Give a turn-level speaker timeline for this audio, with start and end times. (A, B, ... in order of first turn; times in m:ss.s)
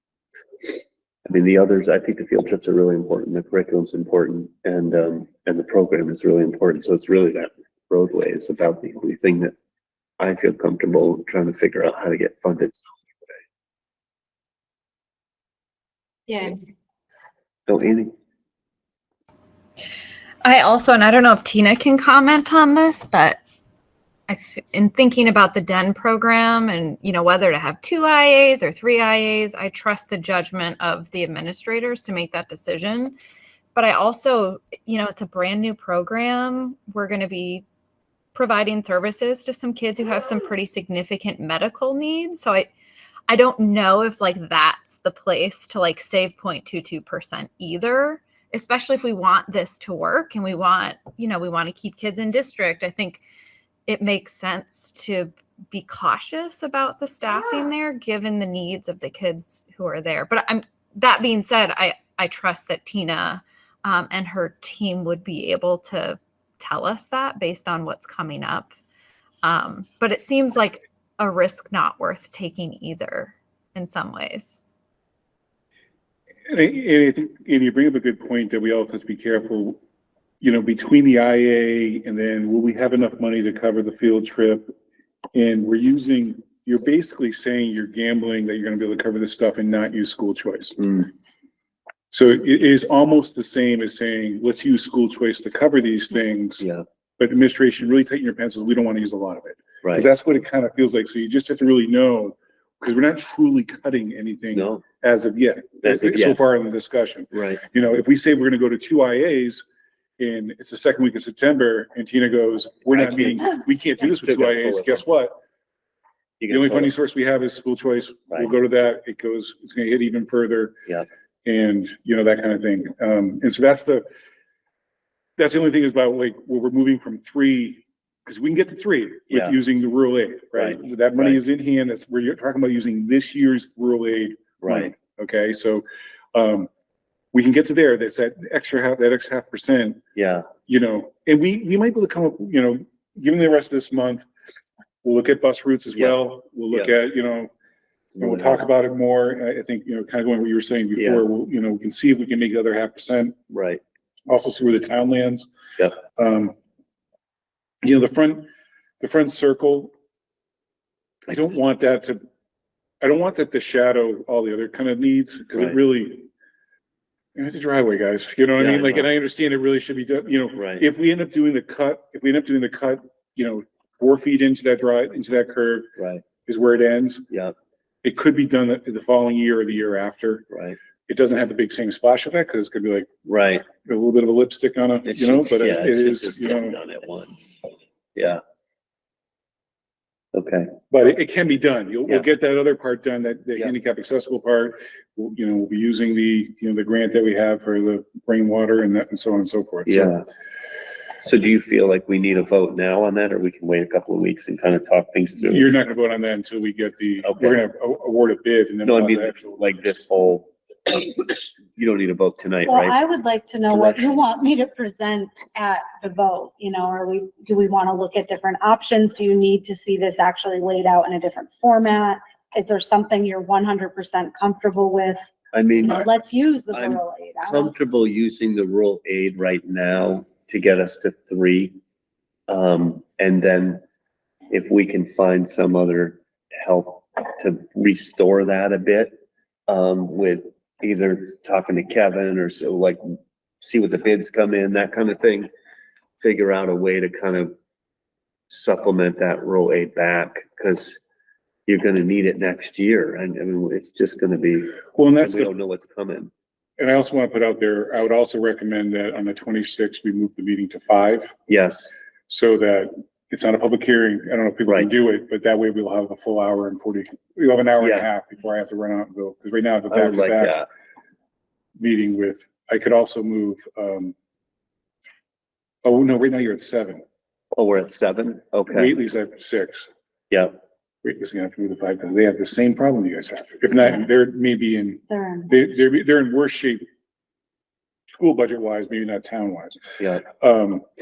0:01.2-0:09.5 A
0:10.2-0:12.9 A
0:16.3-0:16.6 B
0:17.7-0:18.1 A
0:20.4-0:23.4 C
0:24.3-0:33.2 C
0:33.7-0:37.6 C
0:38.3-0:42.7 C
0:43.3-0:53.2 C
0:53.9-1:08.7 C
1:09.4-1:14.6 C
1:16.5-1:19.8 D
1:20.4-1:24.7 D
1:25.3-1:30.8 D
1:30.8-1:31.1 A
1:32.1-1:36.6 D
1:36.6-1:36.8 A
1:37.2-1:49.6 D
1:39.8-1:40.1 A
1:44.5-1:44.8 A
1:45.8-1:46.4 A
1:47.3-1:47.6 A
1:50.2-1:55.4 D
1:52.9-1:55.0 A
1:56.4-1:56.9 A
1:56.5-2:00.8 D
2:01.4-2:04.0 D
2:05.4-2:16.7 D
2:09.3-2:09.6 A
2:10.5-2:11.4 A
2:14.6-2:14.9 A
2:17.3-2:20.0 D
2:20.2-2:20.5 A
2:20.7-2:24.2 D
2:25.0-2:27.5 D
2:28.1-2:28.6 A
2:28.2-2:33.3 D
2:31.0-2:31.2 A
2:33.5-2:33.8 A
2:34.3-2:35.5 D
2:36.1-2:36.5 D
2:37.8-2:38.5 D
2:39.0-2:39.9 D
2:41.3-2:42.2 D
2:43.0-2:46.3 D
2:47.3-2:55.9 D
2:48.6-2:49.1 A
2:50.6-2:50.8 A
2:56.0-2:56.2 A
2:56.4-2:57.3 D
2:58.0-3:00.4 D
3:00.5-3:00.8 A
3:01.1-3:03.1 D
3:03.2-3:03.7 A
3:03.8-3:06.8 D
3:05.0-3:07.6 A
3:08.2-3:08.4 A
3:10.3-3:10.8 A
3:10.9-3:20.2 D
3:19.8-3:20.2 A
3:21.2-3:25.7 A
3:25.4-3:29.8 D
3:27.2-3:27.6 A
3:28.8-3:33.0 A
3:32.6-3:45.2 B
3:33.7-3:34.2 A
3:45.5-3:46.1 A
3:45.8-3:47.7 B
3:46.7-3:51.8 A
3:52.5-3:53.8 A
3:54.5-3:59.2 A
3:59.7-4:05.5 A
4:06.2-4:07.5 A
4:08.5-4:11.0 A
4:11.7-4:16.3 A
4:14.9-4:15.5 D
4:16.8-4:21.3 D
4:21.5-4:21.9 A
4:22.3-4:30.6 D
4:27.8-4:28.1 A
4:29.9-4:30.7 A
4:31.8-4:34.1 D
4:35.8-4:37.0 D
4:37.5-4:38.9 A
4:38.7-4:39.9 D
4:41.0-4:46.8 D
4:45.1-4:45.5 B
4:48.1-4:50.8 D
4:50.0-4:50.2 A